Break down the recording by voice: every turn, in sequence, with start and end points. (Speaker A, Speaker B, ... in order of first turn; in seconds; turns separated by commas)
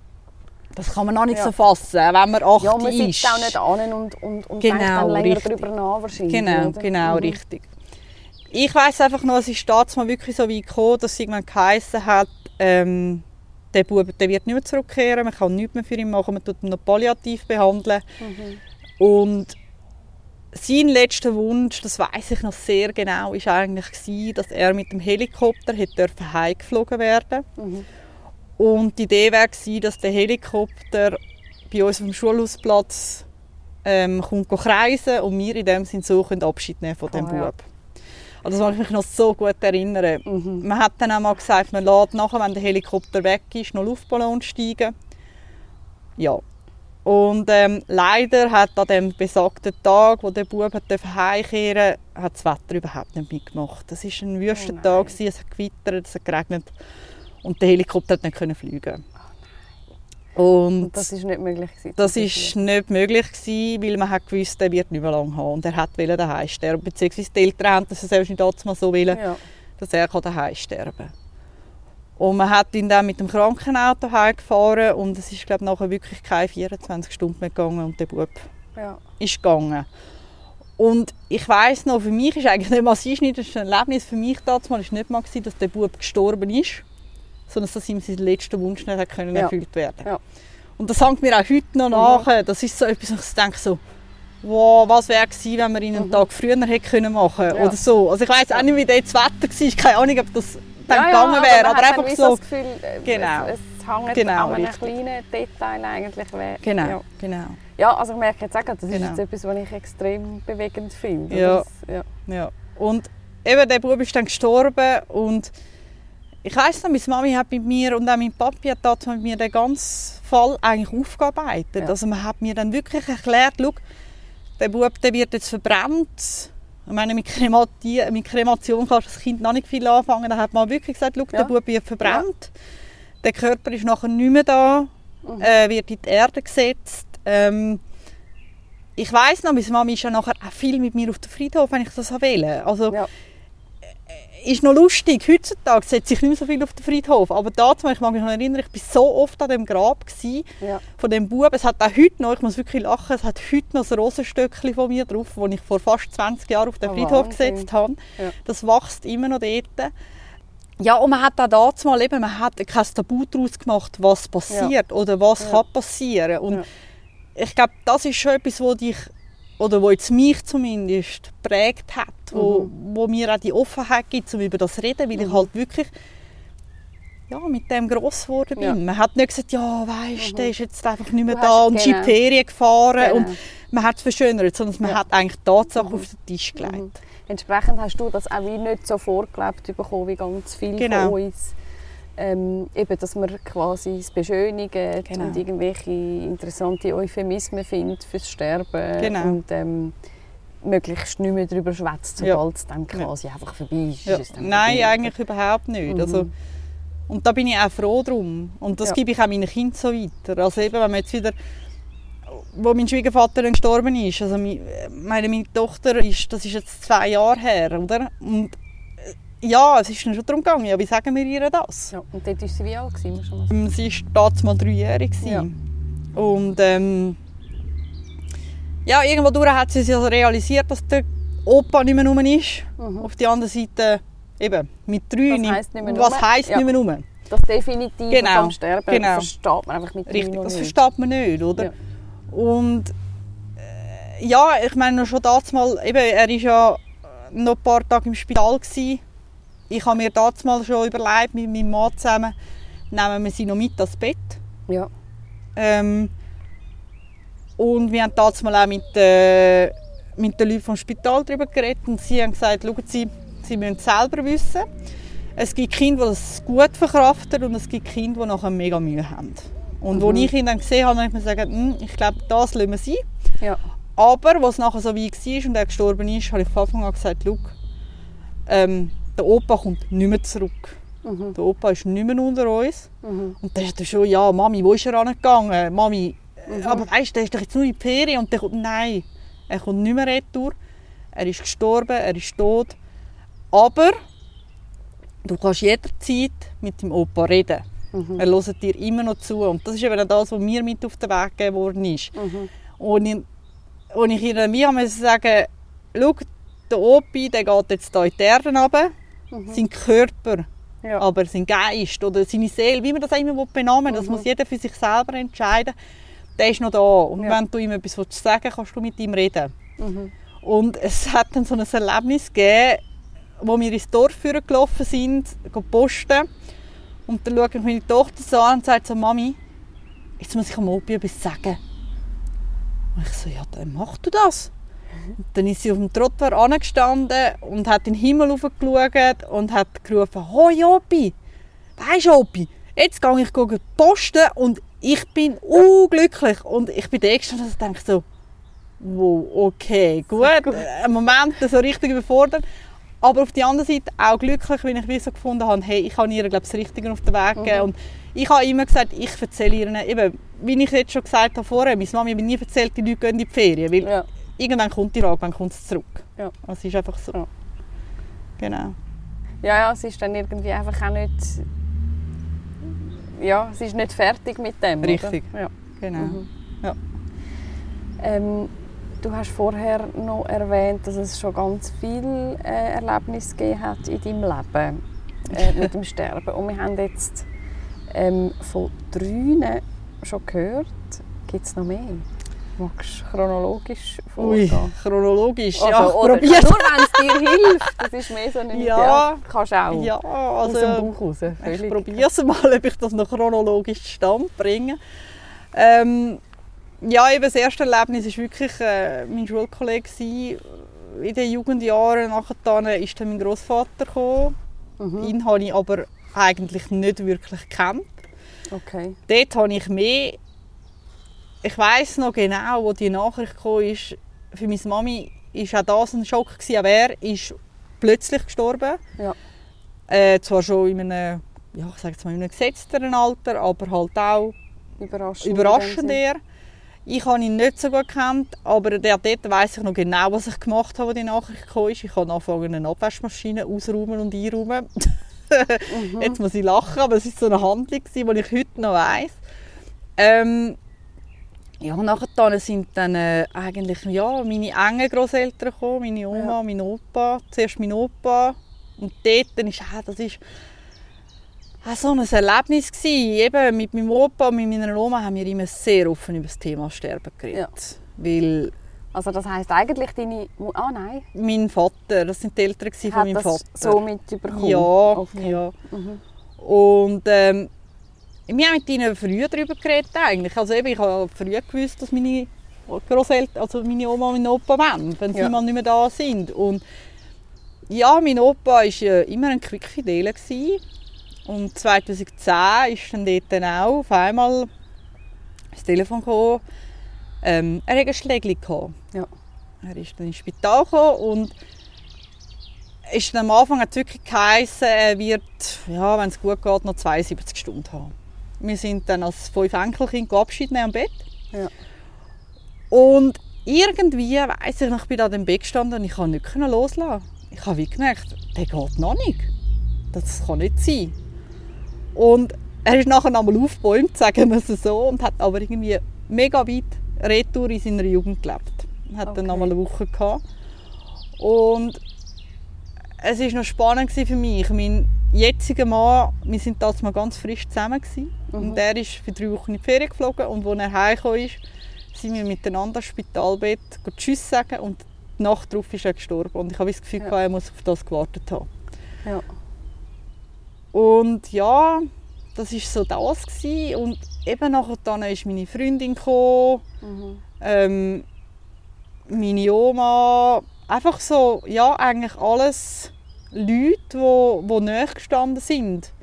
Speaker A: 0.7-3.6, Speaker B: 2.6-7.4, Speaker A: 4.6-5.7, Speaker A: 6.3-7.7, Speaker A: 8.5-18.0, Speaker B: 18.2-18.6, Speaker A: 19.0-19.6, Speaker A: 20.5-27.4, Speaker B: 27.6-27.9, Speaker A: 28.6-33.2, Speaker A: 33.8-37.7, Speaker B: 37.1-37.5, Speaker A: 38.4-44.9, Speaker B: 40.3-40.6, Speaker A: 46.2-46.4, Speaker A: 47.0-56.7, Speaker B: 54.5-55.1, Speaker A: 57.4-59.0, Speaker A: 60.4-61.1, Speaker B: 60.8-62.6, Speaker A: 62.0-69.2, Speaker B: 69.1-69.4, Speaker A: 69.8-71.1, Speaker A: 72.2-78.5, Speaker A: 79.2-79.9, Speaker A: 80.8-86.8, Speaker A: 87.5-90.1, Speaker A: 90.8-93.8, Speaker B: 91.9-92.2, Speaker A: 94.4-102.4, Speaker B: 96.0-96.2, Speaker B: 100.9-107.0, Speaker A: 103.0-103.5, Speaker A: 104.1-104.9, Speaker A: 106.6-107.6, Speaker B: 107.8-112.0, Speaker A: 108.9-109.2, Speaker A: 111.3-111.7, Speaker A: 112.3-115.5, Speaker A: 116.4-123.8, Speaker A: 124.6-132.5, Speaker A: 133.2-137.8, Speaker B: 135.2-135.5, Speaker A: 138.9-143.0, Speaker A: 144.1-159.9, Speaker B: 156.8-158.3, Speaker A: 160.8-166.6, Speaker A: 167.3-175.9, Speaker B: 172.3-172.7, Speaker B: 175.2-175.4, Speaker A: 177.3-186.9, Speaker B: 180.2-180.5, Speaker B: 181.3-182.2, Speaker B: 183.0-183.4, Speaker B: 186.6-191.5, Speaker A: 190.8-191.2, Speaker B: 192.2-199.9, Speaker A: 195.1-195.4, Speaker A: 199.0-199.4, Speaker B: 200.6-205.1, Speaker A: 204.0-206.3, Speaker B: 205.9-206.3, Speaker A: 207.1-211.3, Speaker A: 212.3-221.9, Speaker B: 221.9-223.6, Speaker A: 223.5-225.5, Speaker B: 225.2-225.5, Speaker A: 226.1-227.2, Speaker A: 228.8-237.1, Speaker B: 232.8-233.1, Speaker B: 235.3-236.7, Speaker B: 237.3-240.8, Speaker A: 238.1-239.3, Speaker A: 240.1-241.7, Speaker A: 242.3-242.9, Speaker A: 243.6-249.0, Speaker A: 249.7-252.3, Speaker A: 252.9-254.4, Speaker A: 255.6-256.1, Speaker A: 257.6-264.7, Speaker A: 265.4-273.1, Speaker B: 269.9-270.3, Speaker A: 274.0-277.5, Speaker A: 278.5-280.8, Speaker B: 281.0-281.4, Speaker A: 281.3-282.9, Speaker B: 283.0-283.4, Speaker A: 283.4-290.6, Speaker B: 286.5-286.9, Speaker A: 291.1-292.8, Speaker A: 293.5-294.0, Speaker A: 295.2-297.6, Speaker B: 297.9-298.2, Speaker A: 298.2-302.1, Speaker B: 302.2-302.5, Speaker A: 302.8-303.2, Speaker A: 303.9-308.9, Speaker B: 309.3-309.6, Speaker A: 309.5-315.7, Speaker B: 313.9-314.2, Speaker A: 316.4-319.5, Speaker B: 319.8-320.1, Speaker A: 320.4-322.8, Speaker A: 323.4-326.3, Speaker A: 327.1-329.4, Speaker A: 330.2-331.6, Speaker A: 332.9-334.5, Speaker A: 335.2-341.1, Speaker A: 341.8-348.0, Speaker A: 348.8-352.4, Speaker B: 350.2-350.6, Speaker A: 353.0-367.2, Speaker B: 357.4-357.7, Speaker B: 363.8-364.1, Speaker A: 368.4-368.8, Speaker B: 369.4-371.4, Speaker B: 373.1-376.3, Speaker A: 374.8-376.8, Speaker B: 378.0-387.2, Speaker B: 387.9-392.1, Speaker B: 392.6-394.7, Speaker A: 394.2-397.8, Speaker B: 395.6-402.1, Speaker A: 398.5-404.8, Speaker A: 405.5-406.2, Speaker A: 406.8-414.4, Speaker B: 414.8-415.1, Speaker A: 415.0-417.9, Speaker B: 418.5-419.0, Speaker A: 419.1-420.2, Speaker A: 421.4-428.8, Speaker A: 429.9-434.4, Speaker B: 434.8-436.0, Speaker A: 435.2-436.2, Speaker A: 436.9-449.2, Speaker B: 445.7-446.2, Speaker A: 450.0-450.6, Speaker A: 451.6-460.2, Speaker A: 461.6-468.5, Speaker B: 468.9-471.1, Speaker A: 471.1-475.5, Speaker B: 472.9-476.0, Speaker A: 476.4-477.5, Speaker A: 478.3-486.6, Speaker A: 487.7-490.6, Speaker A: 491.2-494.5, Speaker A: 495.5-496.4, Speaker A: 497.2-498.8, Speaker A: 499.6-501.3, Speaker A: 502.9-511.1, Speaker A: 512.7-519.3, Speaker A: 519.9-520.9, Speaker A: 521.9-530.2, Speaker B: 529.0-529.5, Speaker A: 531.2-531.8, Speaker A: 533.0-541.4, Speaker B: 538.3-538.6, Speaker A: 541.9-548.5, Speaker A: 550.7-556.6, Speaker B: 556.8-557.2, Speaker A: 557.4-558.0, Speaker A: 559.1-565.9